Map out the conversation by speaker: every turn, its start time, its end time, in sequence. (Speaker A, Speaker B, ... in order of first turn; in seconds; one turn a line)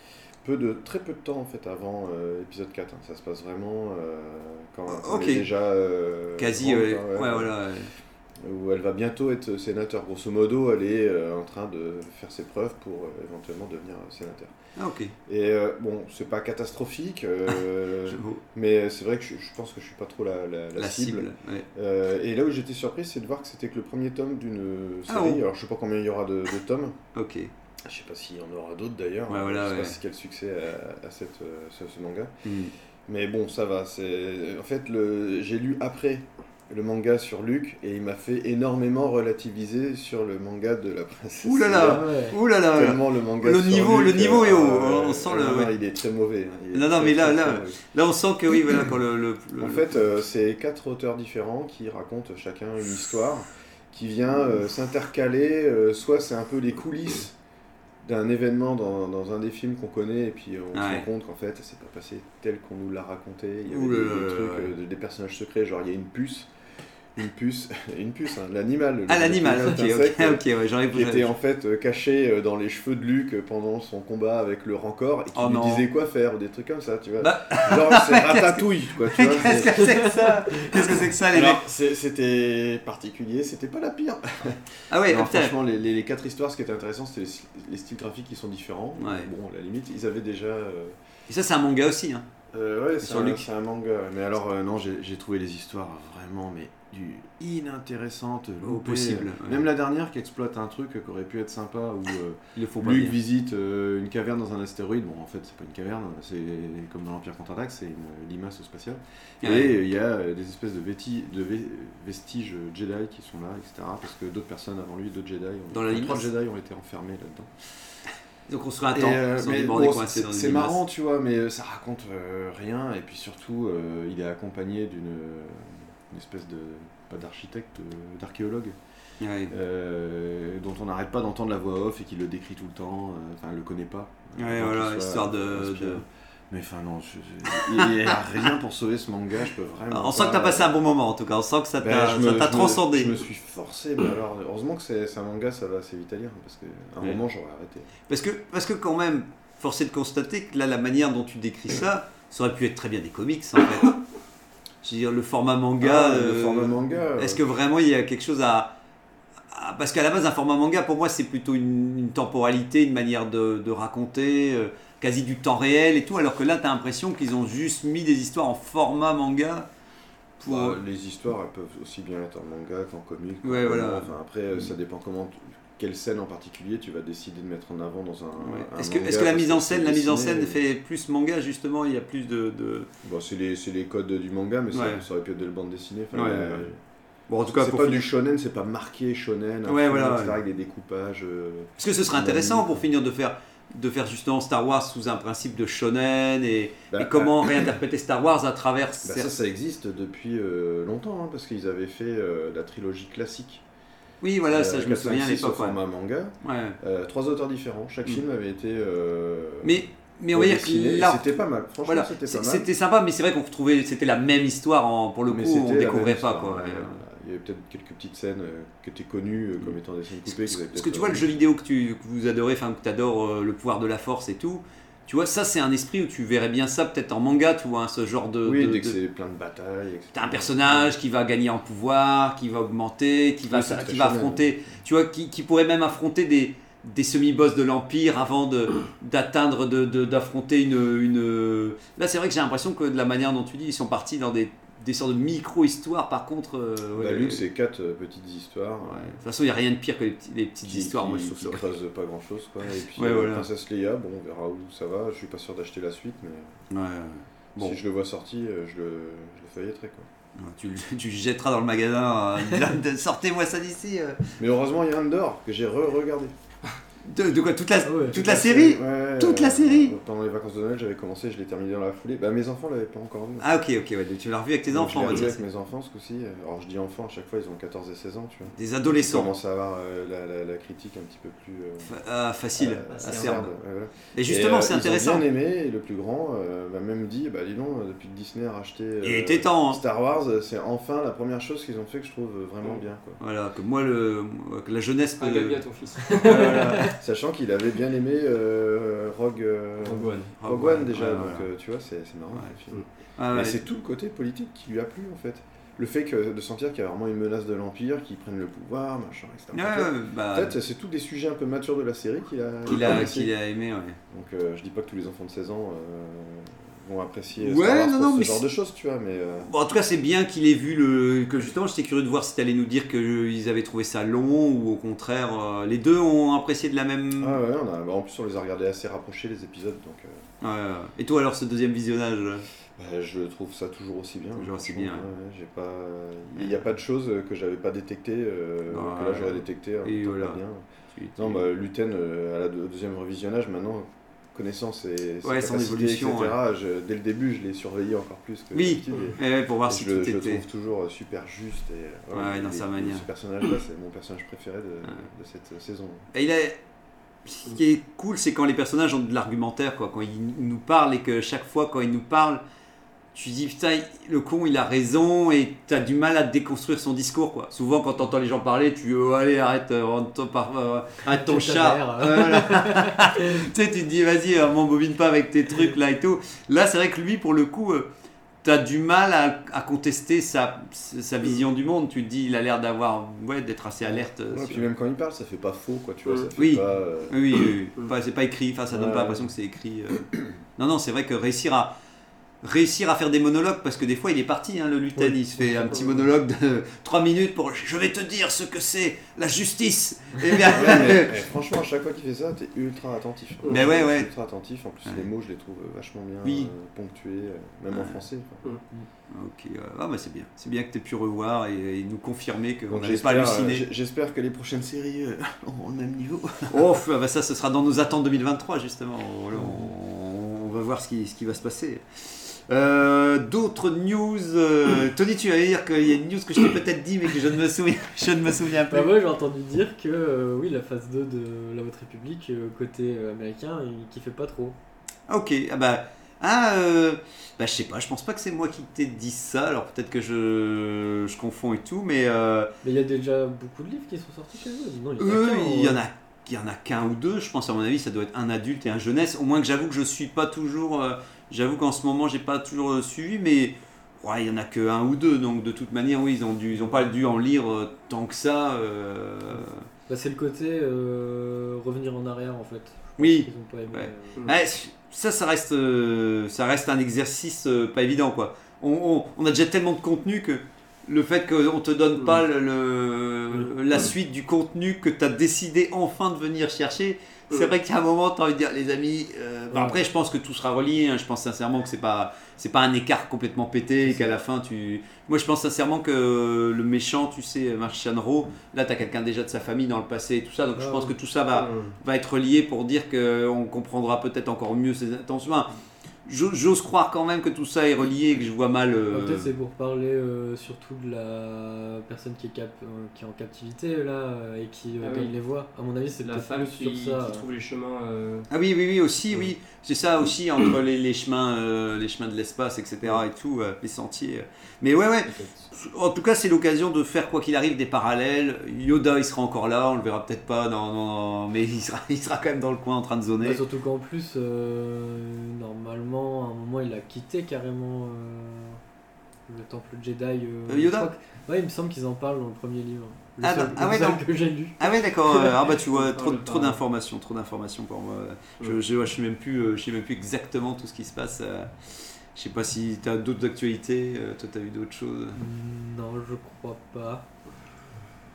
Speaker A: 0.4-7.5
Speaker B: 4.9-5.5
Speaker B: 6.4-7.9
Speaker A: 8.4-14.6
Speaker B: 14.8-15.1
Speaker A: 15.3-27.0
Speaker B: 18.1-18.4
Speaker B: 20.8-21.7
Speaker B: 25.1-25.4
Speaker B: 27.1-27.5
Speaker A: 27.8-32.3
Speaker B: 29.3-29.9
Speaker B: 32.4-32.7
Speaker A: 33.1-47.8
Speaker B: 41.4-45.7
Speaker C: 41.9-42.4
Speaker B: 46.7-49.9
Speaker A: 49.6-57.4
Speaker A: 58.0-66.5
Speaker B: 60.7-61.0
Speaker B: 63.7-64.7
Speaker A: 67.2-80.1
Speaker B: 69.1-71.3
Speaker B: 75.3-75.8
Speaker B: 77.2-81.6
Speaker A: 80.7-91.0
Speaker B: 84.9-85.5
Speaker B: 89.0-89.3
Speaker B: 91.3-92.3
Speaker A: 92.5-117.5
Speaker B: 93.0-93.4
Speaker B: 98.6-99.7
Speaker B: 102.6-103.2
Speaker B: 109.4-109.7
Speaker B: 115.7-116.3
Speaker B: 118.5-120.8
Speaker A: 118.9-128.8
Speaker B: 129.2-129.5
Speaker A: 129.5-140.8
Speaker B: 134.4-136.0
Speaker B: 137.6-137.9
Speaker B: 139.9-143.1
Speaker A: 141.8-147.9
Speaker B: 148.1-154.0
Speaker B: 154.8-158.8
Speaker A: 155.8-157.4
Speaker B: 159.5-169.7
Speaker B: 170.4-170.8
Speaker A: 170.5-180.6
Speaker B: 173.4-174.1
Speaker B: 178.4-182.9
Speaker A: 183.0-186.8
Speaker B: 184.7-185.0
Speaker B: 186.1-186.7
Speaker B: 187.3-188.1
Speaker A: 187.5-192.8
Speaker B: 189.7-190.4
Speaker B: 191.8-199.3
Speaker A: 196.9-197.7
Speaker A: 199.0-203.6
Speaker B: 204.2-205.8
Speaker A: 204.5-212.7
Speaker B: 206.4-206.8
Speaker B: 209.6-211.3
Speaker B: 211.8-216.9
Speaker A: 215.3-221.5
Speaker B: 220.3-229.0
Speaker A: 228.4-230.9
Speaker B: 230.1-247.4
Speaker A: 233.5-234.8
Speaker A: 247.0-249.2
Speaker B: 248.9-251.7
Speaker A: 250.6-256.5
Speaker B: 252.9-253.5
Speaker B: 256.7-257.8
Speaker A: 257.6-260.1
Speaker B: 260.4-264.2
Speaker A: 264.4-266.3
Speaker B: 267.1-269.9
Speaker C: 267.8-268.2
Speaker A: 268.1-273.5
Speaker B: 273.4-275.4
Speaker A: 274.7-281.9
Speaker B: 278.6-279.3
Speaker B: 281.9-283.5
Speaker A: 282.6-293.2
Speaker D: 282.9-283.4
Speaker B: 284.1-285.3
Speaker B: 289.0-289.8
Speaker B: 293.2-297.0
Speaker D: 295.2-296.9
Speaker A: 296.9-313.3
Speaker D: 299.9-300.3
Speaker B: 300.4-301.5
Speaker B: 303.2-303.6
Speaker B: 309.5-310.6
Speaker B: 312.7-314.0
Speaker A: 314.1-319.5
Speaker B: 317.4-318.4
Speaker B: 319.4-327.4
Speaker A: 327.2-330.2
Speaker B: 330.4-332.5
Speaker A: 332.8-340.6
Speaker B: 334.4-335.1
Speaker B: 338.7-340.4
Speaker B: 340.9-341.4
Speaker A: 341.2-356.1
Speaker B: 345.2-346.3
Speaker B: 348.5-350.4
Speaker B: 352.1-353.1
Speaker B: 356.1-356.6
Speaker B: 357.3-362.4
Speaker B: 363.1-377.9
Speaker C: 371.1-373.4
Speaker B: 378.4-384.6
Speaker A: 383.8-387.3
Speaker B: 386.4-390.1
Speaker A: 388.7-389.3
Speaker B: 390.6-391.8
Speaker B: 392.4-401.1
Speaker C: 395.0-396.1
Speaker A: 400.4-408.6
Speaker D: 403.4-403.8
Speaker B: 403.5-404.1
Speaker B: 406.2-406.5
Speaker B: 407.7-408.0
Speaker B: 409.1-413.6
Speaker A: 412.7-416.6
Speaker B: 416.5-428.9
Speaker C: 419.4-419.6
Speaker C: 428.7-434.6
Speaker B: 435.1-442.5
Speaker C: 442.6-445.8
Speaker B: 445.0-459.7
Speaker C: 459.9-464.3
Speaker B: 463.0-495.5
Speaker D: 472.0-472.2
Speaker C: 479.5-479.8
Speaker C: 483.9-484.1
Speaker C: 490.6-490.9
Speaker D: 491.3-491.8
Speaker B: 496.1-499.3
Speaker C: 498.9-507.2
Speaker D: 504.8-505.1
Speaker D: 506.0-508.3
Speaker B: 508.3-523.4
Speaker D: 515.1-515.5
Speaker C: 523.2-528.6
Speaker C: 529.3-534.6
Speaker B: 530.5-530.9
Speaker B: 533.2-534.0
Speaker B: 534.6-541.5
Speaker D: 535.1-536.6
Speaker B: 542.1-545.2
Speaker C: 545.1-547.1